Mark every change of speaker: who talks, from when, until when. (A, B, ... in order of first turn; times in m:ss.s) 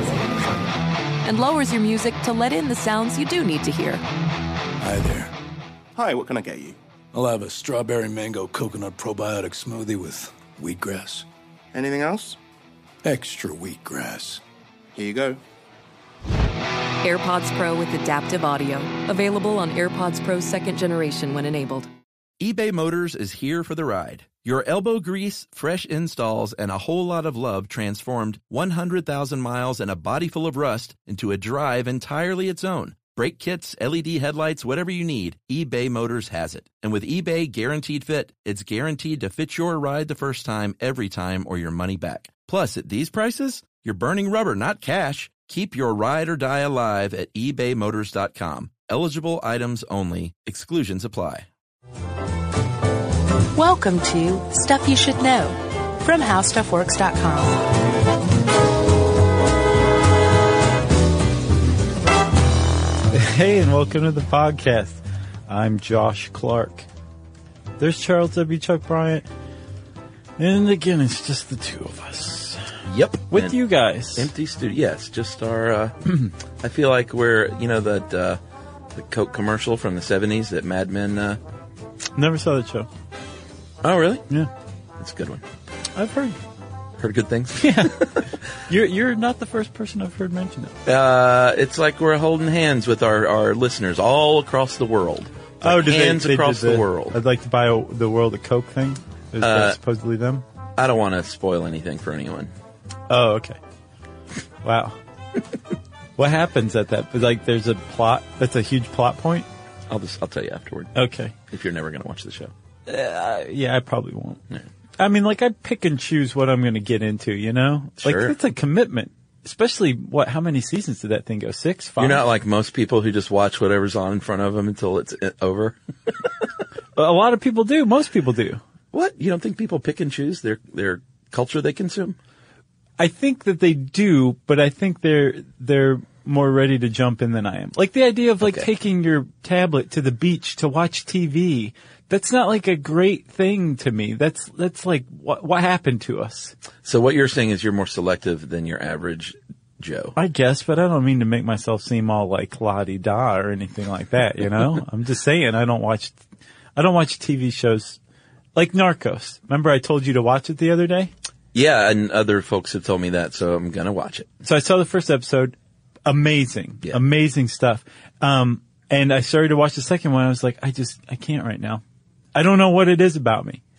0:01.2-0:04.0 A
0:04.8-0:05.3 B
0:06.0-0:06.8 C
0:07.1-0:11.2 B
0:11.7-0:12.4 C
0:13.0-0:14.4 B
0:15.0-0:15.4 C
0:17.0-0:21.9 A
0:22.4-0:51.4 D
0:53.6-0:57.7 E
1:03.1-1:06.8 F
1:07.8-1:09.2 F
1:10.4-1:12.7 F
1:12.9-1:13.6 D
1:13.3-1:14.3 F
1:14.2-1:16.0 D
1:16.6-1:18.4 D
1:18.9-1:21.4 D
1:22.2-1:22.9 F
1:23.8-1:24.2 D
1:25.0-1:25.4 D
1:25.9-1:26.4 F
1:27.0-1:28.3 D
1:27.6-1:30.8 F
1:30.8-1:37.2 D
1:35.6-1:40.4 F
1:39.4-1:39.8 D
1:40.8-1:42.5 D
1:43.1-1:43.6 F
1:44.6-1:45.0 F
1:46.2-1:49.5 F
1:49.9-1:50.9 D
1:50.9-1:51.3 F
1:51.5-1:52.5 D
1:52.9-1:54.4 F
1:55.0-2:02.2 F
1:58.0-1:58.3 D
2:02.0-2:06.2 D
2:07.0-2:08.6 F
2:08.9-2:12.2 D
2:13.0-2:26.5 F
2:18.4-2:18.7 D
2:26.8-2:30.1 D
2:30.2-2:36.2 F
2:36.8-2:38.0 F
2:38.5-2:41.1 F
2:41.5-2:44.3 D
2:44.4-2:45.5 F
2:46.1-2:51.8 F
2:52.3-2:53.6 F